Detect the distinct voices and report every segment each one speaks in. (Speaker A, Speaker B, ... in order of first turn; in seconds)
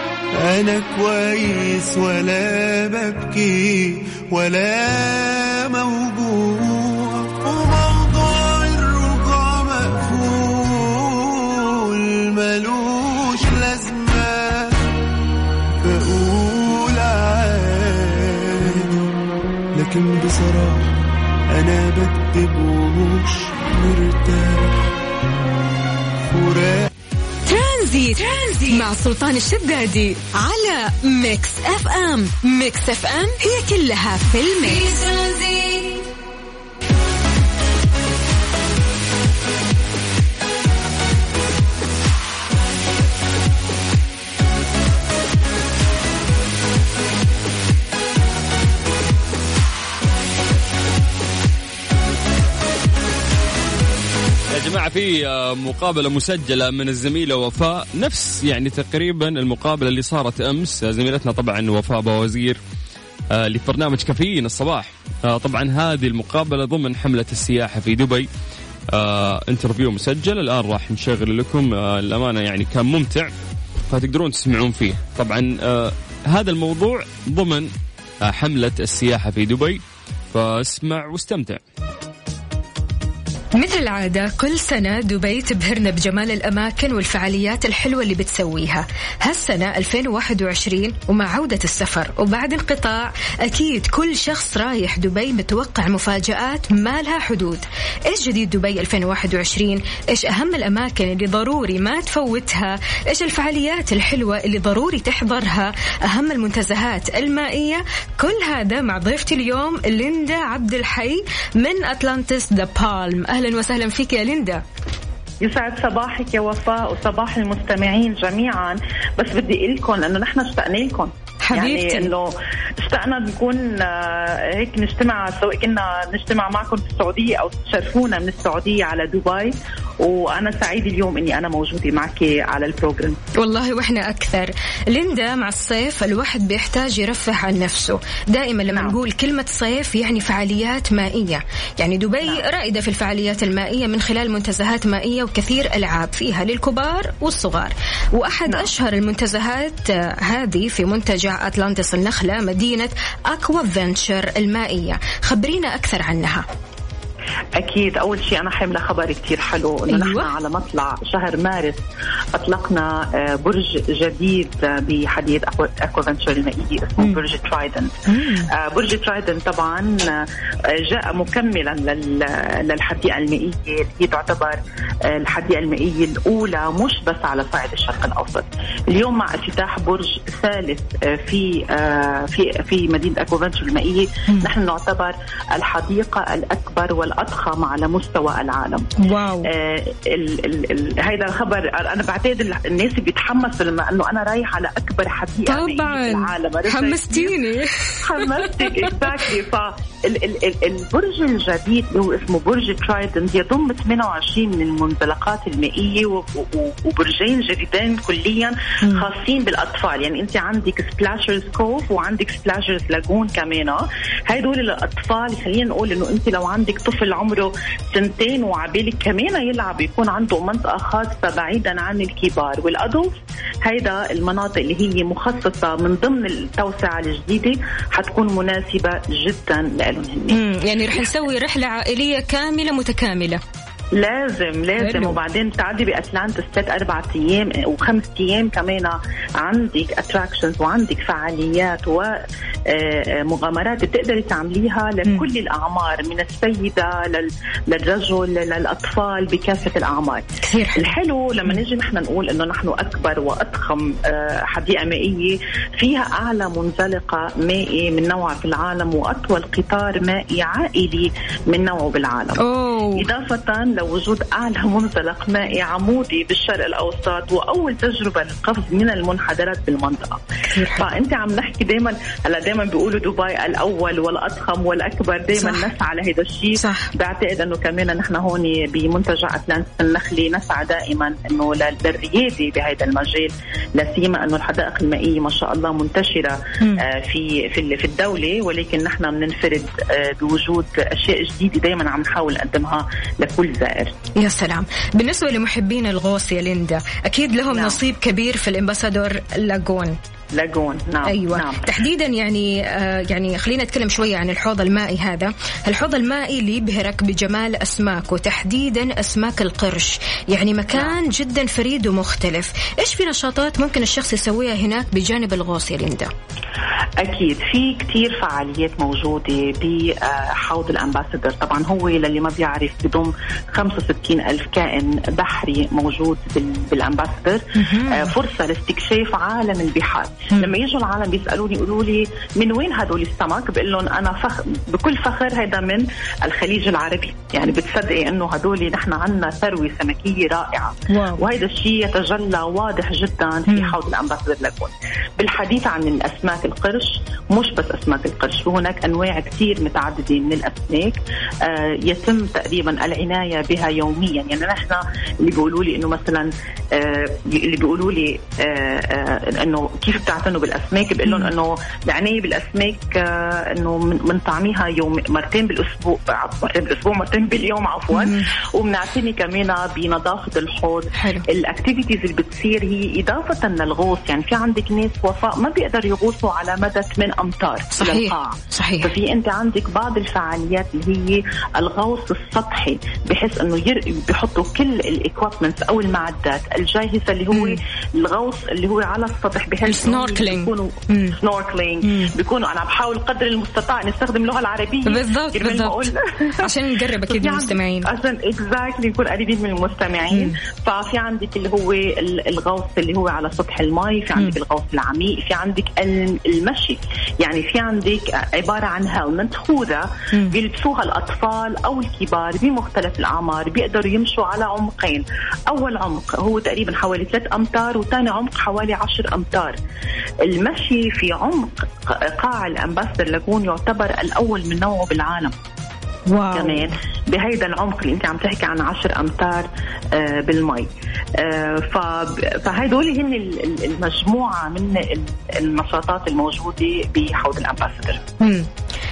Speaker A: 0.4-14.8, 15.8-19.1, 19.7-20.9, 21.5-24.9, 26.3-26.9
Speaker B: 27.4-35.7
Speaker C: 54.5-62.6, 63.3-68.3, 68.9-73.3, 73.9-77.7, 78.2-79.8, 80.3-81.6
Speaker D: 83.5-114.6, 121.4-122.1, 133.3-156.4, 159.9-160.3, 168.1-168.5, 189.0-189.5, 195.4-199.0, 230.3-233.4, 234.8-235.2, 250.4-250.9, 262.4-263.1, 270.5-270.9, 275.3-275.7, 276.5-276.9, 294.1-300.0, 301.1-316.1, 327.6-328.1, 340.9-341.2, 343.5-343.7, 367.9-368.3, 370.9-371.2, 377.8-378.9, 387.3-387.6, 389.6-391.2, 391.8-392.1, 394.9-397.9, 400.1-400.4, 426.1-426.7, 438.2-438.5
Speaker E: 115.4-133.2, 138.7-139.0, 157.6-161.8, 162.3-168.0, 168.5-188.9, 189.4-197.3, 198.0-230.4, 233.9-262.4, 262.9-270.2, 270.7-293.9, 297.5-297.8, 300.3-301.6, 317.0-396.5, 397.1-419.6, 420.2-425.3, 426.3-438.0